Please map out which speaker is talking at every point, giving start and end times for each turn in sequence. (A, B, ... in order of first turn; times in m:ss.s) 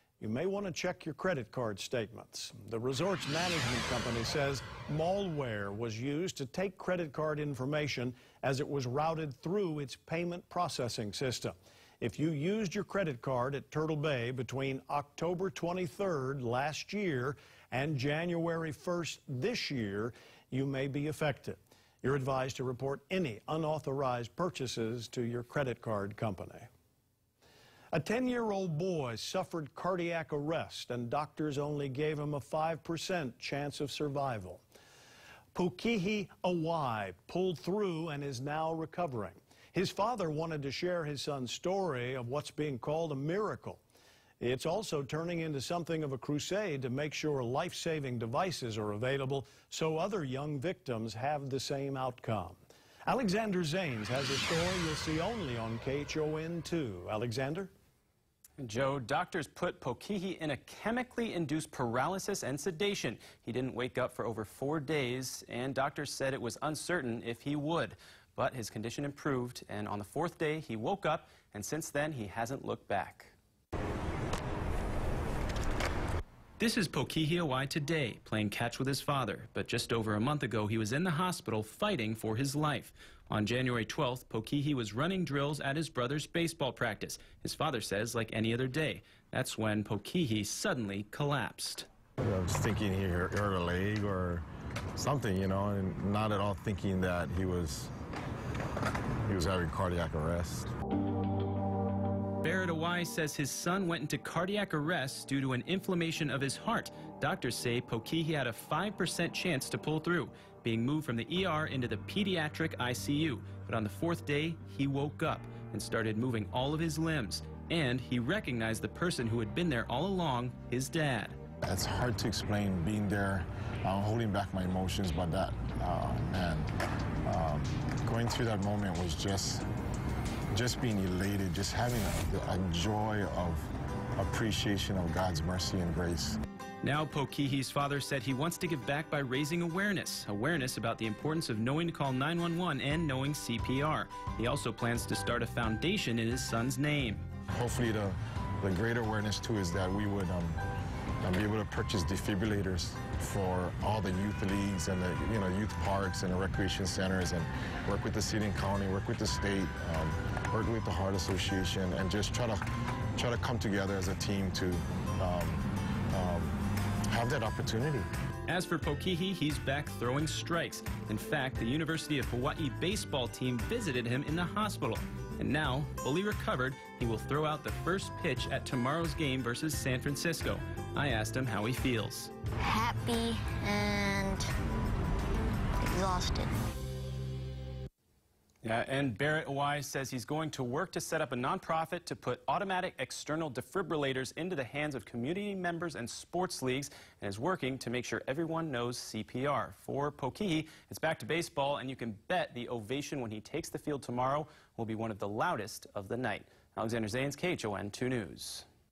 0:00.2-0:26.7 A
0:27.9-0:34.6 A
0:35.5-0:43.8 A
0:44.4-0:57.7 A
0:58.6-1:13.3 B
1:16.6-1:31.9 B
1:32.2-1:37.9 C
1:39.2-1:40.7 C
1:42.4-2:01.4 B
2:01.6-2:06.7 C
2:07.2-2:09.6 C
2:10.5-2:16.4 C
2:16.8-2:27.3 B
2:27.5-2:30.6 C
2:31.2-2:48.1 C
2:48.5-3:02.3 B
3:02.6-3:04.5 D
3:05.8-3:06.5 D
3:08.6-3:28.6 B